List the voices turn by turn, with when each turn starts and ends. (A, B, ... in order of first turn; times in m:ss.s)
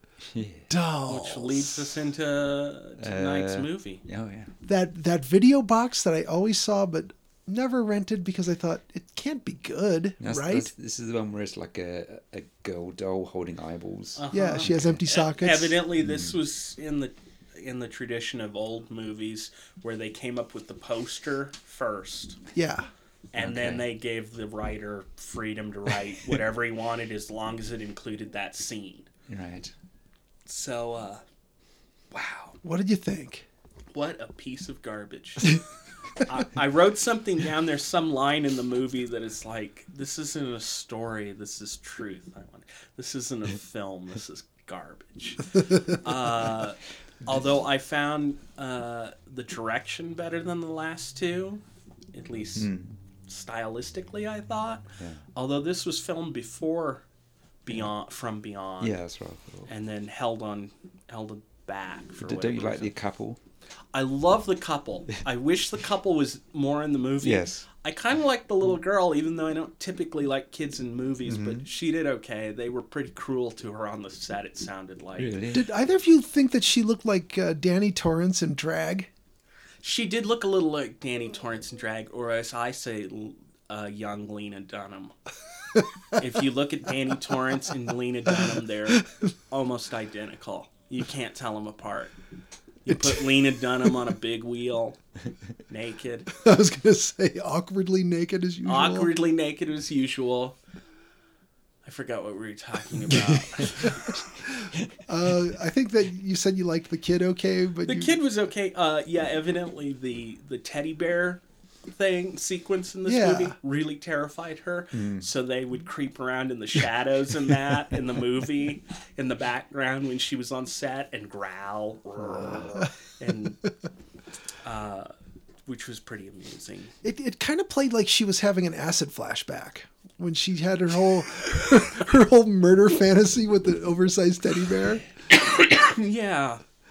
0:00.3-0:00.7 A
0:00.7-0:02.0 B
0:01.1-0:04.0 C
0:03.0-0:04.5 A
0:04.6-0:10.7 B
0:10.2-0:15.0 A
0:14.2-0:22.4 C
0:14.3-0:15.8 B
0:16.0-0:16.4 A
0:22.6-0:22.9 B
0:23.3-0:29.1 C
0:23.4-0:23.9 A
0:29.3-0:29.7 A
0:30.5-0:31.2 C
0:32.1-0:32.6 C
0:32.6-0:33.5 B
0:33.9-0:35.6 C
0:36.2-0:52.7 C
0:52.6-0:53.0 A
0:53.3-0:57.0 C
0:55.0-0:55.2 A
0:57.6-0:59.0 C
0:58.8-0:59.7 A
0:59.7-1:02.9 C
1:02.2-1:03.4 A
1:03.9-1:15.4 C
1:07.2-1:07.6 A
1:11.3-1:11.6 A
1:15.2-1:15.7 A
1:15.5-1:19.1 B
1:19.8-1:25.1 C
1:26.1-1:32.2 C
1:32.8-1:35.0 C
1:32.9-1:33.9 B
1:35.7-1:36.3 C
1:36.3-1:39.1 B
1:38.6-1:40.6 C
1:41.8-1:44.2 C
1:44.4-1:48.2 B
1:47.9-2:03.7 C
1:53.1-1:53.6 B
1:54.9-1:55.3 A
2:02.5-2:02.9 B
2:04.6-2:05.1 C
2:05.7-2:06.9 C
2:07.0-2:15.1 B
2:15.3-2:16.6 C